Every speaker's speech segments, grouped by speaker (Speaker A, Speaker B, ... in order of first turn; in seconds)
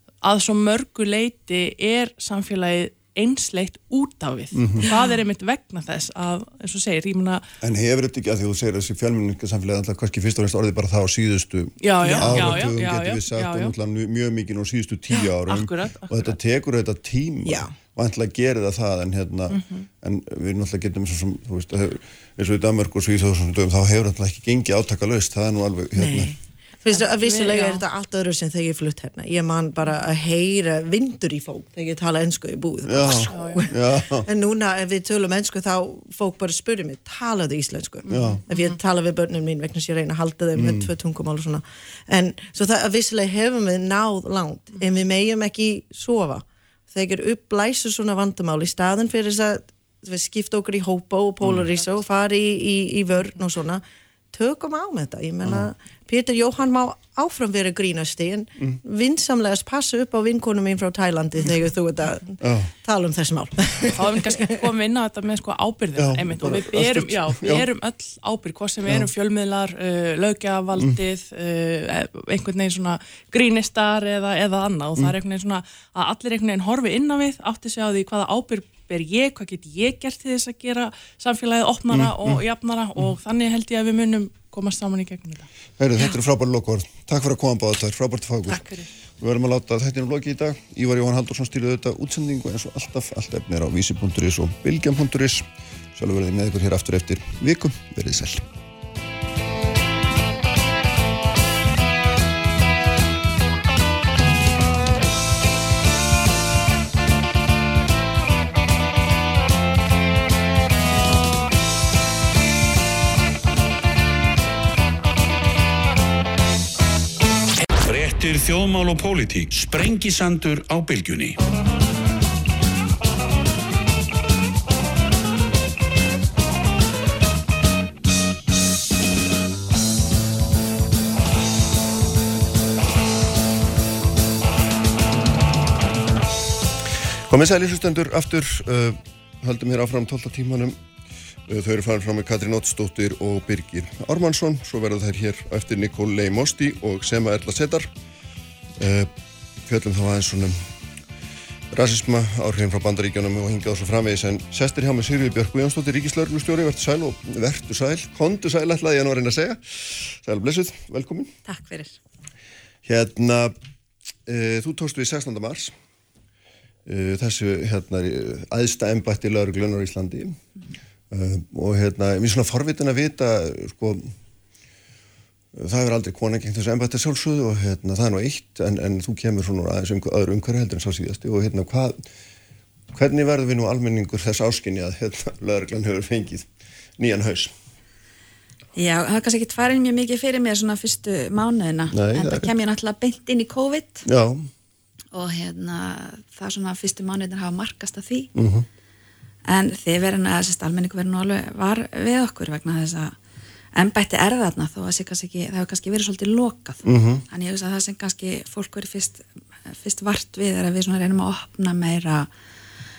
Speaker A: 0.2-7.4, 11.8-13.8, 15.1-16.4, 19.5-19.9, 26.9-27.8, 33.3-33.6, 64.0-85.5
Speaker B: 4.5-4.9, 7.6-26.4, 32.9-34.3, 38.1-38.4, 40.5-40.9, 55.5-55.7, 62.4-62.7, 66.0-67.7, 81.9-82.4, 85.8-88.7, 89.2-98.4, 137.3-140.8, 141.5-147.9, 148.8-149.1, 149.7-150.6, 151.7-161.4, 162.8-163.5, 164.3-165.7, 166.9-170.4, 171.1-174.1, 175.5-182.0, 182.9-186.5, 187.0-187.5, 191.9-192.5, 194.1-194.5, 198.4-198.7, 206.8-207.2
Speaker C: 4.8-5.1, 12.1-12.6, 17.4-17.7, 25.9-64.6
Speaker D: 117.8-121.4
Speaker E: 161.5-161.9, 188.8-194.1, 195.1-198.3, 199.5-203.2, 203.8-212.3